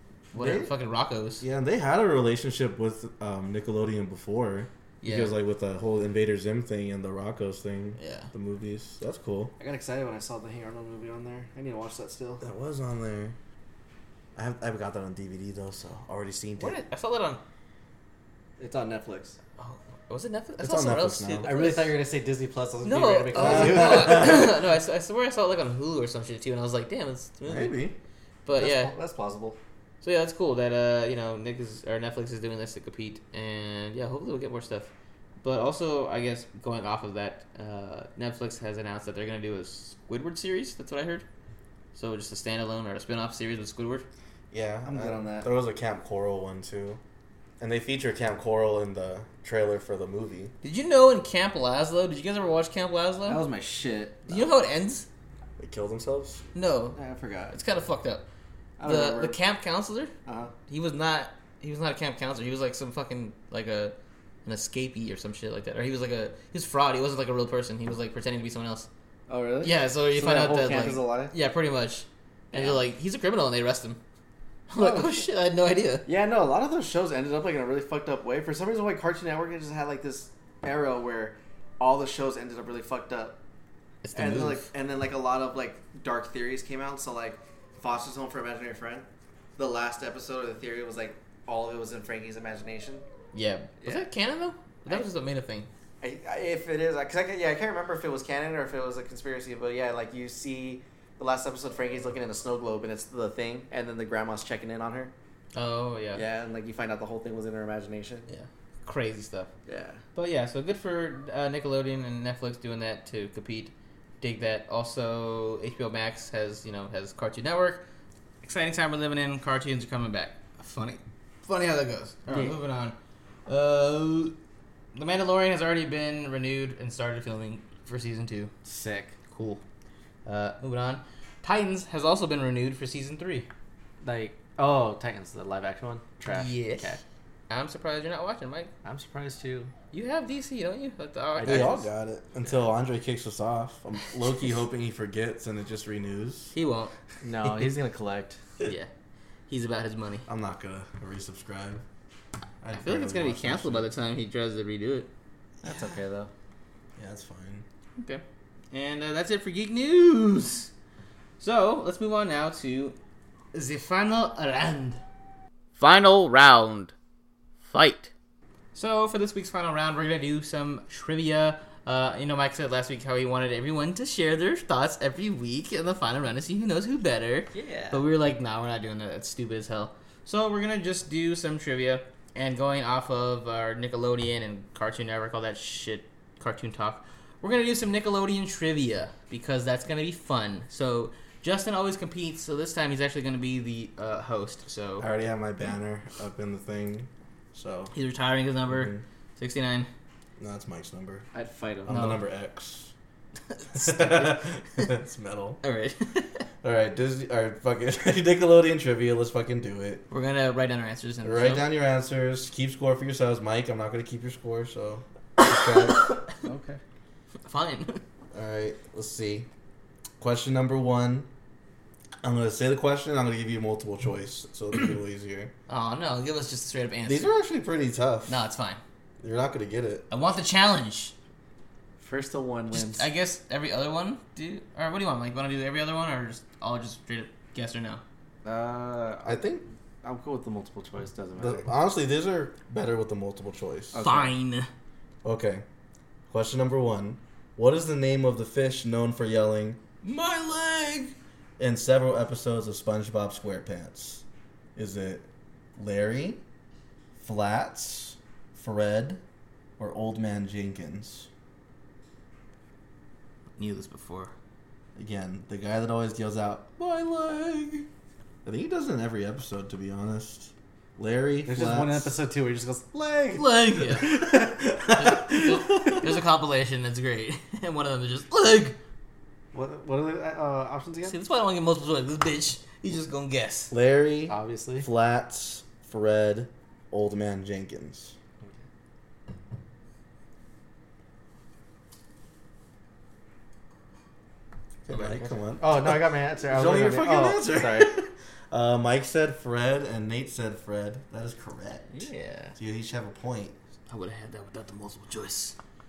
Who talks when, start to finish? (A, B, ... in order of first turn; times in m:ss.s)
0:00.3-0:01.4 A
0:00.4-0:00.7 B
0:01.4-0:09.5 B
0:05.0-0:05.3 A
0:08.0-0:08.3 A
0:09.6-0:12.4 C
0:12.4-0:13.4 B
0:14.4-0:16.8 B
0:16.6-0:17.4 A
0:18.6-0:19.4 C
0:19.6-0:22.0 A
0:20.6-0:21.5 B
0:21.4-0:24.5 C
0:22.8-0:27.8 A
0:23.4-0:24.5 B
0:27.4-0:28.0 B
0:28.4-0:28.9 A
0:28.5-0:29.6 C
0:30.0-0:34.9 A
0:35.4-0:41.3 A
0:41.9-0:44.1 A
0:44.5-0:47.0 B
0:44.9-0:45.5 C
0:47.6-0:50.5 B
0:50.6-0:53.4 A
0:53.3-0:54.5 C
0:54.3-0:55.1 A
0:55.6-0:56.4 B
0:56.6-0:57.0 A
0:56.9-0:57.6 C
0:57.5-0:58.3 A
0:58.8-0:59.4 C
0:58.8-1:00.1 A
1:00.3-1:00.5 C
1:00.7-1:08.9 A
1:09.3-1:11.3 C
1:09.6-1:14.0 A
1:12.5-1:12.8 C
1:14.7-1:16.0 A
1:14.8-1:15.2 C
1:16.1-1:23.4 C
1:24.0-1:24.7 A
1:24.1-1:29.1 C
1:29.6-1:33.0 C
1:33.3-1:35.7 A
1:36.0-1:45.1 C
1:45.5-1:46.2 A
1:46.1-1:48.3 C
1:48.3-1:49.5 A
1:49.7-1:50.0 C
1:50.2-1:57.8 A
1:58.4-2:03.0 A
2:02.3-2:02.6 C
2:03.5-2:04.4 A
2:04.9-2:08.5 A
2:08.6-2:09.2 C
2:09.3-2:09.6 A
2:10.3-2:13.5 A
2:14.0-2:17.0 C
2:16.3-2:17.0 A
2:17.5-2:18.7 A
2:18.8-2:19.7 C
2:19.9-2:21.8 A
2:21.4-2:21.8 C
2:21.4-2:26.5 B
2:26.5-2:27.0 A
2:27.2-2:28.4 C
2:28.6-2:28.9 A
2:29.5-2:30.3 A
2:30.3-2:31.8 B
2:32.6-2:33.9 B
2:32.7-2:35.1 A
2:35.6-2:36.3 C
2:37.0-2:37.6 B
2:38.0-2:40.7 A
2:41.4-2:43.0 A
2:43.5-2:45.0 A
2:45.8-2:46.9 A
2:47.6-2:48.1 A
2:48.7-3:15.1 A
2:57.5-2:58.0 C
3:15.0-3:17.9 B
3:17.9-3:19.9 A
3:18.7-3:19.0 B
3:20.4-3:21.3 B
3:21.3-3:22.0 C
3:21.9-3:22.9 B
3:21.9-3:22.2 A
3:23.5-3:24.9 A
3:23.7-3:25.6 B
3:25.6-3:26.5 A
3:26.6-3:30.1 B
3:30.1-3:31.6 A
3:31.2-3:36.1 B
3:36.4-3:36.8 C
3:37.5-3:38.0 A
3:38.3-3:39.5 B
3:40.2-3:41.3 B
3:42.2-3:45.5 B
3:45.7-3:47.3 A
3:47.1-3:48.4 B
3:48.3-3:48.8 A
3:49.2-3:50.1 B
3:50.1-3:51.1 A
3:52.0-3:53.1 C
3:52.7-3:58.0 A
3:58.4-3:59.5 C
3:59.2-3:59.7 B
4:00.0-4:01.7 C
4:01.4-4:04.0 B
4:03.9-4:04.3 C
4:04.0-4:04.7 A
4:05.2-4:05.6 B
4:06.3-4:09.8 B
4:10.0-4:11.1 A
4:11.6-4:14.2 B
4:14.8-4:16.4 B
4:17.2-4:19.2 B
4:19.8-4:21.3 B
4:23.6-4:24.3 A
4:25.0-4:27.9 B
4:28.4-4:32.1 B
4:31.4-4:33.4 C
4:33.3-4:38.8 A
4:33.9-4:36.1 B
4:39.5-4:41.2 C
4:41.1-4:43.7 A
4:43.7-4:48.2 B
4:44.3-4:44.9 C
4:54.9-5:01.9 B
4:54.9-4:57.9 C
5:01.9-5:02.6 C
5:02.6-5:03.6 B
5:03.9-5:05.6 A